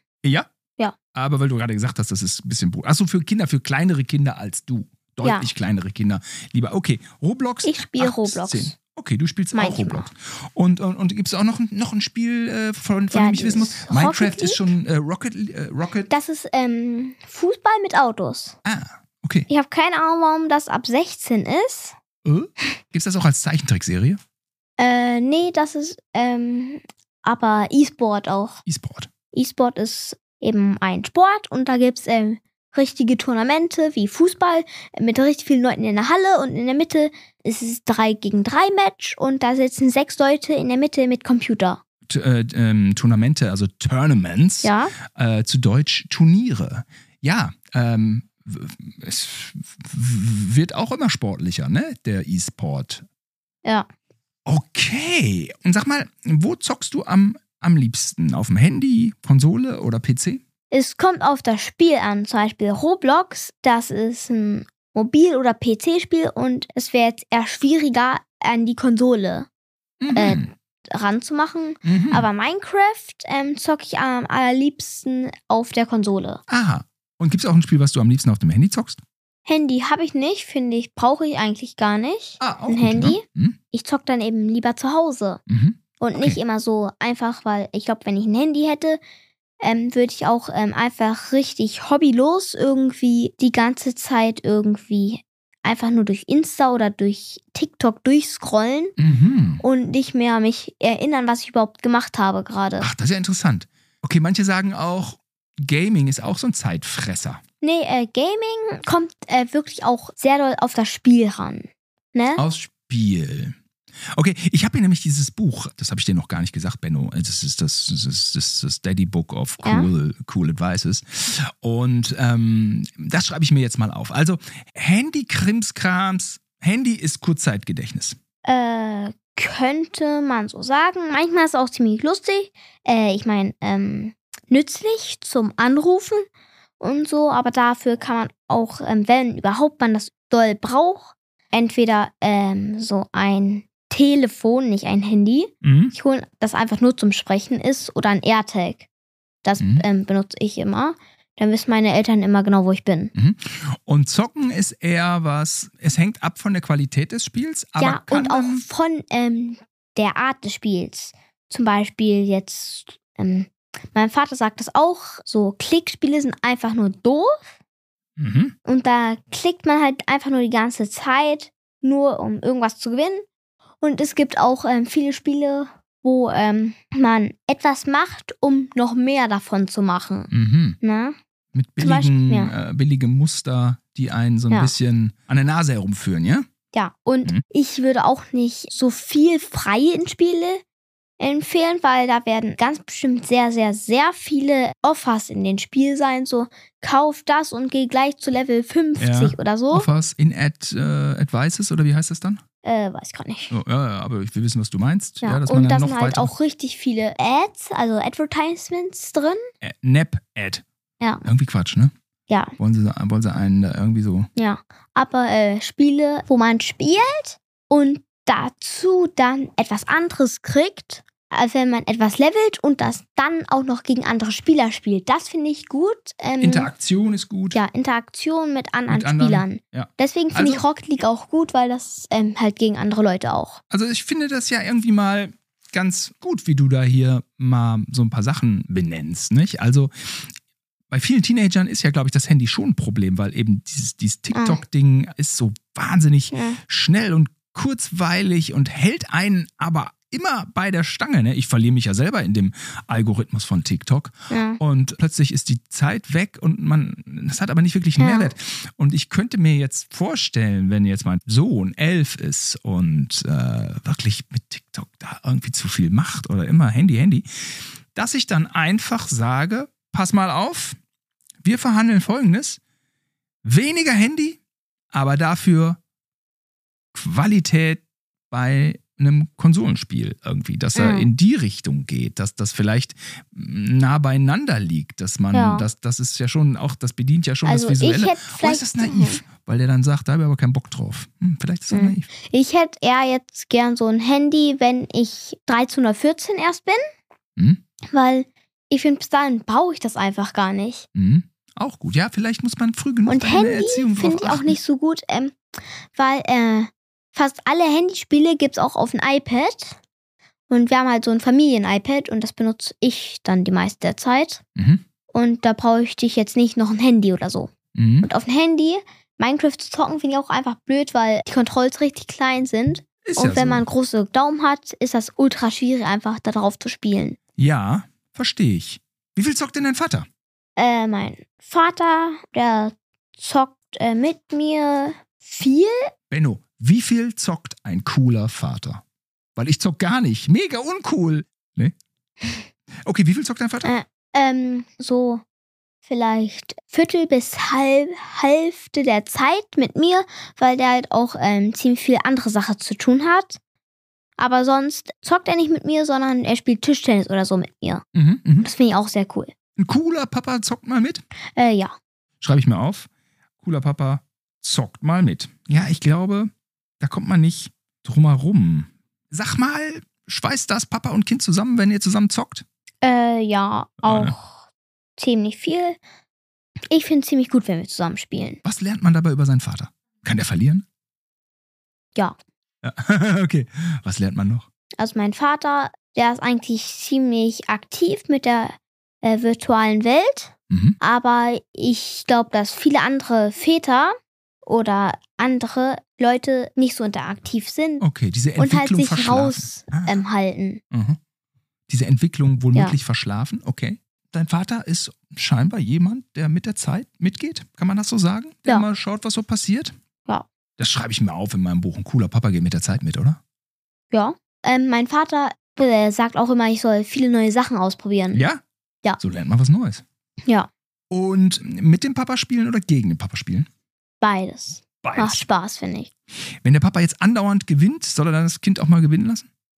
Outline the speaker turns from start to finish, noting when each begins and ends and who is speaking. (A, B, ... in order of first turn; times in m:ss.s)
0:00.2-0:00.5 A
0:01.1-0:16.1 A
0:05.2-0:05.5 B
0:07.6-0:08.7 B
0:09.5-0:10.1 B
0:13.1-0:14.7 B
0:16.1-0:18.6 B
0:18.6-0:19.5 A
0:19.5-0:22.0 B
0:22.2-0:24.2 A
0:24.8-0:28.6 B
0:28.6-0:29.1 A
0:29.3-0:41.8 B
0:42.1-0:53.0 A
0:44.6-0:44.9 B
0:54.4-1:00.4 A
1:00.7-1:09.5 B
1:10.0-1:10.5 A
1:10.1-1:16.4 B
1:11.8-1:12.3 A
1:16.5-1:19.0 A
1:19.5-1:25.4 B
1:22.4-1:23.6 A
1:25.5-1:26.4 A
1:26.0-1:29.0 B
1:29.6-1:39.0 B
1:39.0-1:39.6 A
1:39.6-1:42.9 B
1:42.8-1:47.4 A
1:47.6-1:52.4 B
1:52.4-1:53.6 A
1:54.1-2:08.2 A
1:59.6-1:59.9 B
2:08.4-2:16.2 B
2:16.8-2:28.9 B
2:25.6-2:25.9 A
2:29.4-2:33.1 B
2:29.6-2:29.8 A
2:33.1-2:38.6 A
2:37.8-2:47.5 B
2:48.2-2:48.5 A
2:48.6-2:53.2 B
2:53.8-3:01.2 B
3:00.3-3:00.8 A
3:01.5-3:06.5 A
3:01.8-3:02.5 B
3:06.7-3:10.6 B
3:11.2-3:19.9 B
3:19.0-3:22.4 A
3:22.6-3:23.6 B
3:23.5-3:26.3 A
3:25.2-3:29.4 B
3:29.6-3:30.6 A
3:31.2-3:31.9 A
3:32.3-3:32.5 B
3:32.6-3:34.3 A
3:34.4-3:46.7 B
3:46.4-3:47.6 A
3:47.5-3:53.6 B
3:48.9-3:50.6 A
3:53.7-4:00.3 A
4:00.9-4:30.8 A
4:04.3-4:04.6 B
4:06.3-4:06.6 B
4:14.3-4:14.6 B
4:18.0-4:18.3 B
4:31.4-4:32.6 A
4:33.4-4:34.4 A
4:34.9-4:35.8 A
4:36.9-4:52.1 A
4:40.7-4:41.1 B
4:45.3-4:45.7 B
4:47.4-4:49.2 B
4:51.7-4:56.8 B
4:57.9-5:00.8 B
5:00.9-5:04.6 A
5:03.0-5:05.4 B
5:05.9-5:09.8 B
5:10.5-5:14.4 B
5:14.6-5:14.8 A
5:15.1-5:27.2 B
5:17.7-5:18.1 A
5:23.0-5:23.6 A
5:27.4-5:30.1 A
5:30.6-5:35.9 B
5:36.1-5:38.8 A
5:39.4-5:41.8 A
5:42.8-5:43.7 A
5:43.6-5:45.2 B
5:45.8-5:53.4 B
5:54.2-5:57.8 B
5:57.9-5:58.5 A
5:58.4-5:59.3 B
5:59.6-6:01.0 A
6:01.3-6:01.7 B
6:02.2-6:02.9 A
6:03.4-6:12.4 A
6:12.8-6:14.4 B
6:13.8-6:14.1 A
6:15.0-6:15.8 B
6:16.7-6:18.4 B
6:18.4-6:20.6 A
6:22.6-6:24.4 A
6:24.8-6:37.8 B
6:30.5-6:30.8 A
6:37.8-6:40.0 A
6:38.4-6:40.6 B
6:40.7-6:41.0 A
6:41.7-6:49.7 A
6:50.6-6:53.2 A
6:53.9-6:58.2 B
6:58.1-6:58.4 A
6:59.0-6:59.8 A
7:00.9-7:03.5 A
7:04.0-7:05.9 B
7:04.8-7:05.2 A
7:06.3-7:09.3 A